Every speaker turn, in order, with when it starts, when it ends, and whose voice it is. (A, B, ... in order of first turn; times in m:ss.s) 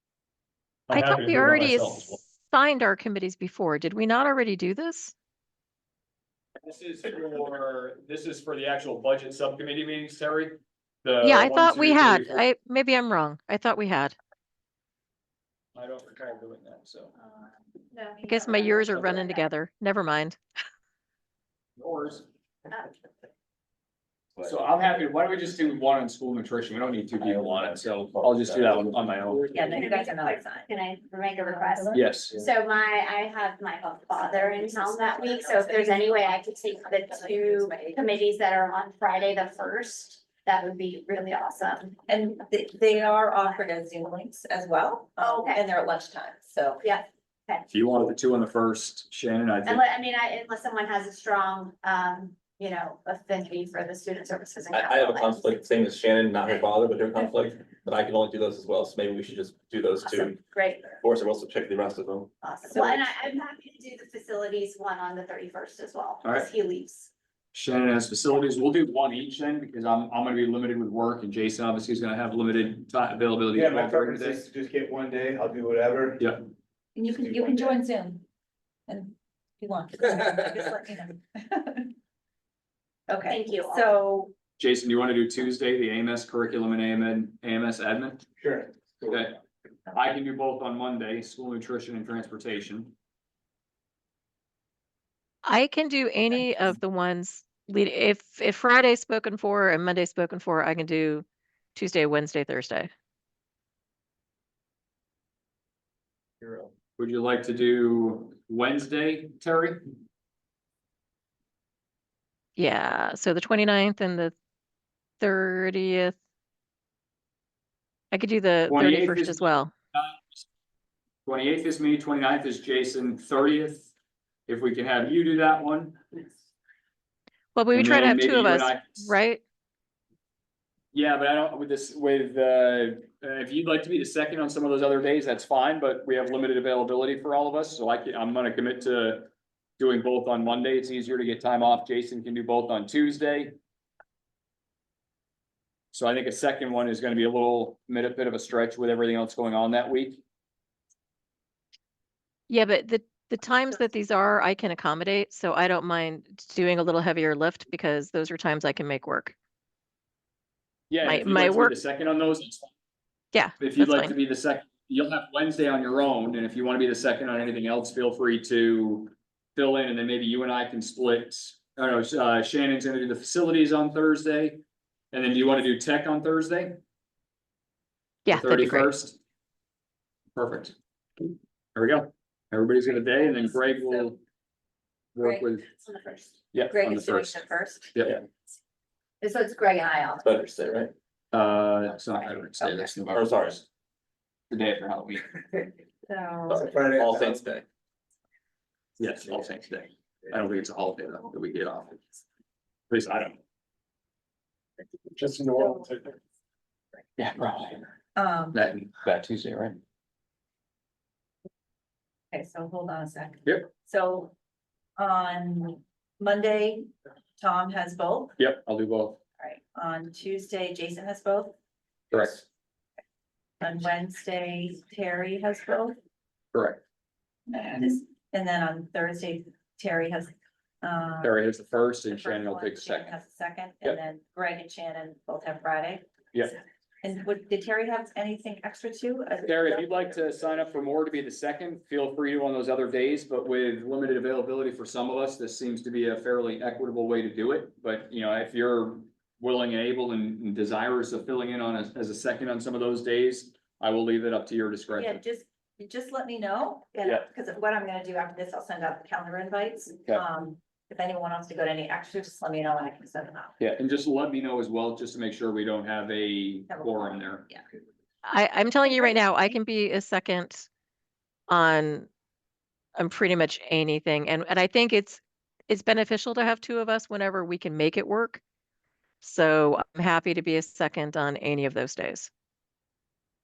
0:00.9-0:05.1 A
0:00.9-0:02.2 B
0:06.6-0:12.4 B
0:11.2-0:14.1 A
0:15.7-0:17.1 B
0:17.9-0:19.2 C
0:18.2-0:20.4 A
0:21.8-0:22.2 B
0:24.4-0:29.6 B
0:27.3-0:27.6 D
0:28.2-0:29.6 D
0:29.5-0:30.7 E
0:29.6-0:42.0 C
0:31.4-0:32.1 E
0:31.9-0:32.4 B
0:34.3-0:38.0 E
0:42.1-0:47.0 E
0:45.2-0:45.6 C
0:46.8-0:47.6 C
0:47.7-0:49.8 B
0:49.6-0:55.6 C
0:54.7-1:00.4 D
1:00.0-1:01.0 C
1:01.0-1:02.3 D
1:02.4-1:07.1 C
1:02.4-1:03.3 E
1:07.5-1:14.4 B
1:13.5-1:16.2 F
1:16.2-1:16.4 B
1:16.9-1:18.2 E
1:17.2-1:17.7 F
1:18.9-1:21.9 E
1:23.1-1:24.3 E
1:23.3-1:23.9 C
1:24.6-1:28.2 B
1:28.4-1:29.2 F
1:29.1-1:29.4 B
1:29.9-1:32.9 B
1:35.4-1:42.9 A
1:46.4-1:46.7 F
1:47.0-1:49.8 B
1:52.6-1:54.3 A
1:55.2-1:56.2 A
1:58.1-1:59.7 A
1:58.7-2:00.4 B
2:01.2-2:03.9 B
2:04.5-2:06.2 B
2:07.5-2:09.4 A
2:07.7-2:09.1 B
2:10.9-2:23.5 B
2:25.9-2:30.2 B
2:32.5-2:39.3 A
2:40.9-2:42.7 B
2:41.0-2:41.8 A
2:43.3-2:44.1 A
2:43.6-2:56.8 B
2:58.2-2:58.9 A
2:58.3-2:59.2 B
3:00.3-3:00.7 B
3:01.7-3:04.2 B
3:05.2-3:05.6 B
3:05.8-3:06.3 C
3:06.5-3:07.4 B
3:06.7-3:07.9 E
3:07.9-3:08.2 B
3:09.2-3:10.2 C
3:10.2-3:10.9 D
3:11.3-3:13.6 B
3:12.6-3:12.9 E
3:13.1-3:13.6 D
3:14.5-3:15.4 B
3:16.1-3:16.6 E
3:16.5-3:17.6 D
3:16.5-3:17.4 F
3:19.0-3:22.1 B
3:22.9-3:23.4 B
3:25.2-3:26.1 B
3:27.2-3:27.9 B
3:28.2-3:28.6 E
3:28.5-3:29.8 B
3:32.3-3:34.3 E
3:35.0-3:38.4 E
3:38.4-3:39.2 B
3:39.4-3:41.5 E
3:42.1-3:42.4 B
3:43.6-3:45.9 E
3:46.5-3:46.8 B
3:47.5-3:51.4 E
3:51.2-3:53.2 B
3:52.1-3:56.1 E
3:57.0-3:59.8 E
3:59.4-4:15.2 B
4:14.9-4:23.6 E
4:23.6-4:27.5 B
4:26.7-4:27.6 E
4:28.2-4:30.7 A
4:28.8-4:29.5 E
4:31.5-4:32.1 A
4:33.0-4:38.4 A
4:39.2-4:42.3 A